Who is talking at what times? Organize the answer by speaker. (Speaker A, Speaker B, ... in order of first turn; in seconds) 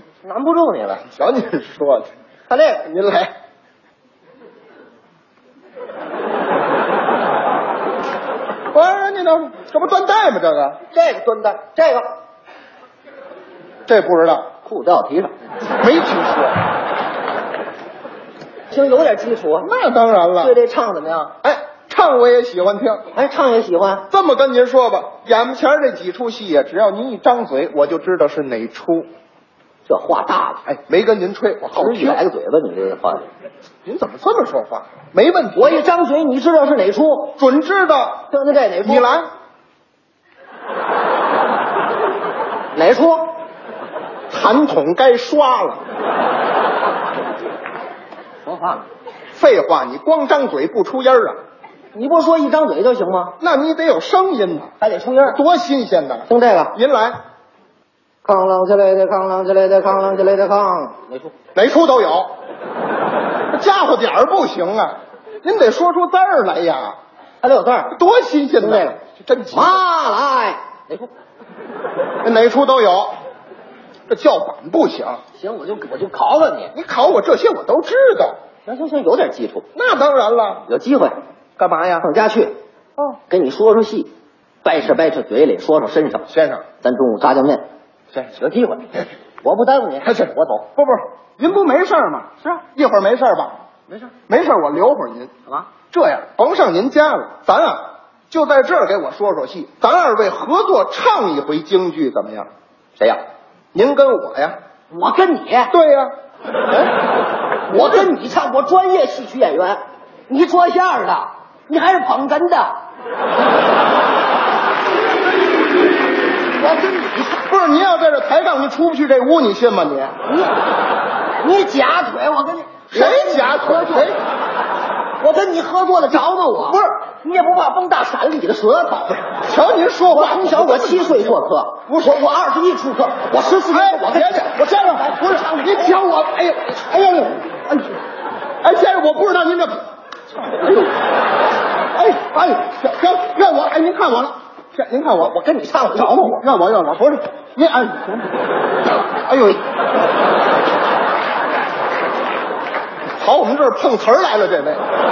Speaker A: 0.2-1.1, 2.5-2.9, 10.9-12.1, 14.6-15.3, 18.7-19.7, 20.4-21.3, 23.1-24.1, 29.9-30.6, 31.7-33.3, 35.5-37.4, 38.3-39.1, 42.7-43.4, 48.4-48.8, 51.9-53.4, 54.8-55.4, 56.3-56.8, 58.2-61.3, 67.4-68.0, 68.6-69.0, 69.5-71.1, 75.3-76.7, 78.6-79.7, 80.7-81.2, 82.0-82.6, 83.3-84.1, 84.6-86.3, 86.8-87.7, 88.3-90.3, 104.9-105.7, 107.7-112.8, 116.6-117.4, 120.2-120.6, 121.4-124.1, 125.2-129.2, 130.1-136.1, 140.5-140.9, 145.2-146.4
Speaker B: 1.1-2.1, 2.9-3.3, 8.7-10.8, 13.8-14.5, 15.8-16.6, 19.6-20.6, 21.4-23.1, 24.1-29.1, 30.6-32.2, 33.8-35.8, 37.4-38.3, 38.8-39.3, 44.3-45.8, 49.3-51.4, 53.4-54.7, 55.2-57.2, 61.5-62.3, 63.5-67.0, 67.9-69.8, 72.2-73.2, 74.1-75.2, 76.7-78.4, 79.7-80.6, 81.6-82.1, 86.3-86.6, 90.0-93.6, 94.3-95.3, 95.9-102.5, 103.7-104.6, 105.7-106.1, 117.5-120.2, 122.9-124.2, 129.4-132.2, 133.7-137.9, 138.6-139.8, 141.9-145.3, 145.9-148.3, 149.1-149.6, 153.2-154.8